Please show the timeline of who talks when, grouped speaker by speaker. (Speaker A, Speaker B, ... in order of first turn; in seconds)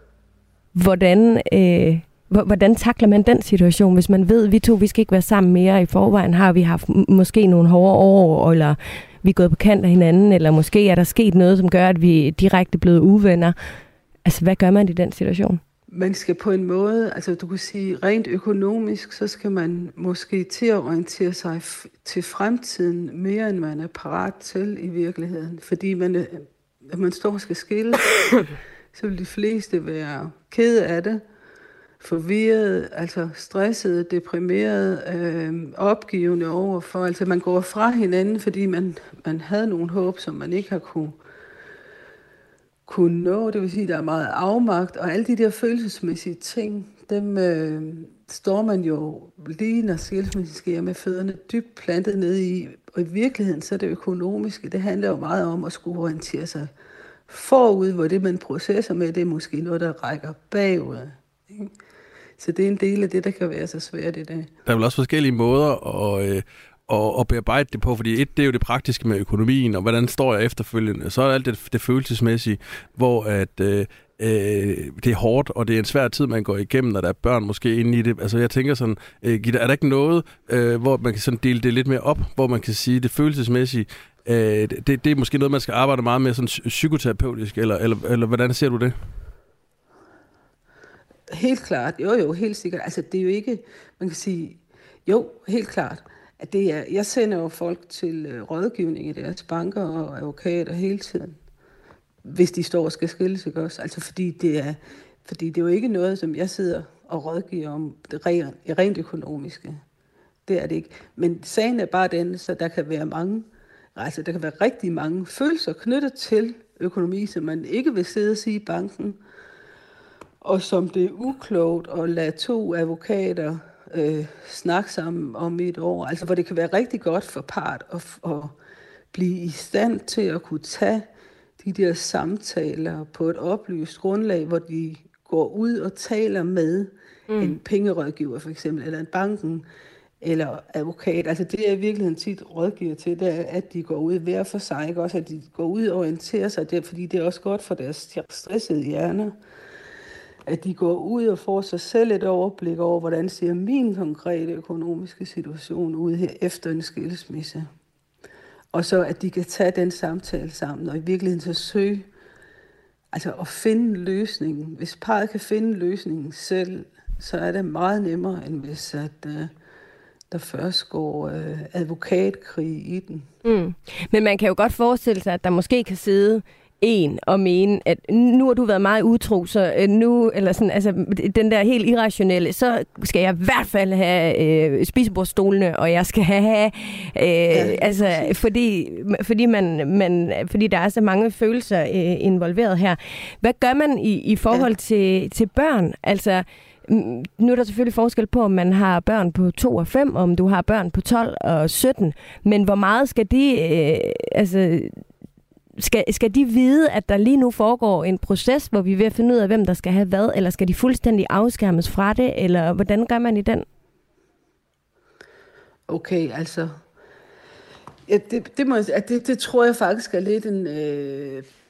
Speaker A: 0.7-13.6, 14.2-15.6, 137.3-137.6, 173.4-205.0, 205.8-213.7
Speaker B: 15.9-31.2, 32.0-41.2, 42.9-56.7, 57.3-61.7, 62.4-64.5, 91.3-101.4, 102.2-109.8, 110.5-119.2, 120.4-128.6, 129.1-131.1, 131.6-139.7, 140.2-149.3, 150.5-157.7, 158.7-162.1, 163.1-169.5, 170.3-173.3, 187.5-188.4, 215.9-216.8, 218.1-221.5
Speaker C: 64.7-89.0